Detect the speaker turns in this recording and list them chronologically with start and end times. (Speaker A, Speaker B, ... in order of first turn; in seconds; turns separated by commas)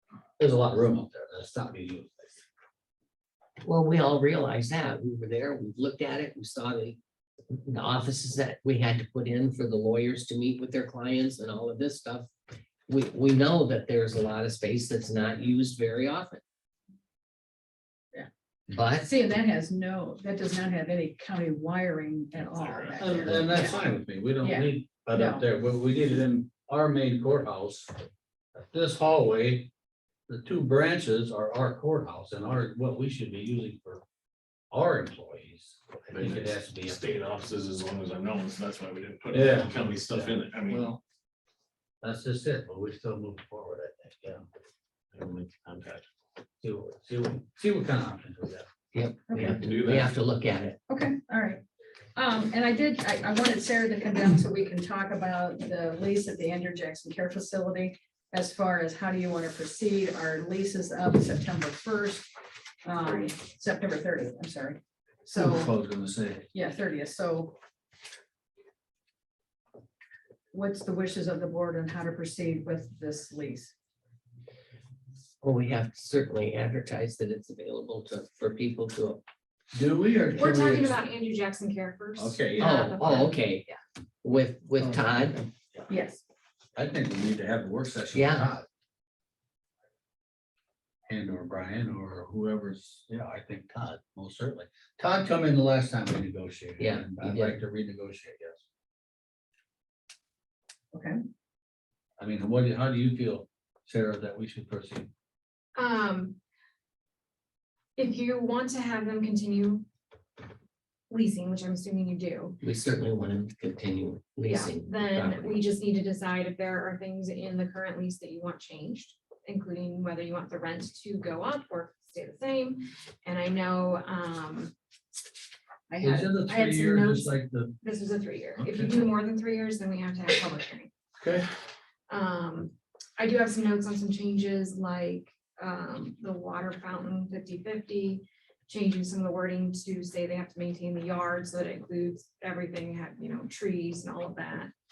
Speaker A: 0.4-2.4, Speaker B: 3.6-7.0, Speaker B: 7.7-12.3, Speaker B: 12.9-16.4, Speaker B: 18.7-19.1, Speaker C: 19.0-23.8, Speaker D: 22.4-23.4, Speaker A: 23.0-27.9, Speaker C: 24.4-25.4, Speaker A: 28.6-29.7, Speaker A: 30.3-34.0, Speaker A: 34.7-37.0, Speaker D: 36.1-40.9, Speaker A: 39.3-41.0, Speaker A: 42.0-44.5, Speaker D: 45.1-46.1, Speaker A: 46.6-48.7, Speaker B: 48.9-50.8, Speaker C: 49.3-49.6, Speaker D: 49.6-50.1, Speaker C: 50.9-51.6, Speaker C: 52.1-62.3, Speaker C: 62.8-65.7, Speaker A: 65.4-66.5, Speaker C: 66.5-67.6, Speaker C: 70.5-73.7, Speaker B: 75.4-79.2, Speaker A: 79.7-81.0, Speaker E: 80.3-83.8, Speaker A: 82.2-82.7, Speaker B: 82.6-83.7, Speaker B: 84.2-85.4, Speaker C: 85.9-86.2, Speaker A: 86.8-88.7, Speaker B: 88.1-88.5, Speaker A: 91.1-98.6, Speaker B: 96.8-97.6, Speaker A: 102.2-105.1, Speaker E: 105.8-106.4, Speaker E: 108.0-109.8, Speaker E: 111.1-112.6, Speaker B: 112.6-115.6, Speaker E: 114.4-124.7, Speaker E: 125.9-130.9, Speaker A: 126.0-127.7, Speaker A: 128.6-129.0, Speaker A: 131.2-131.5, Speaker E: 132.1-144.7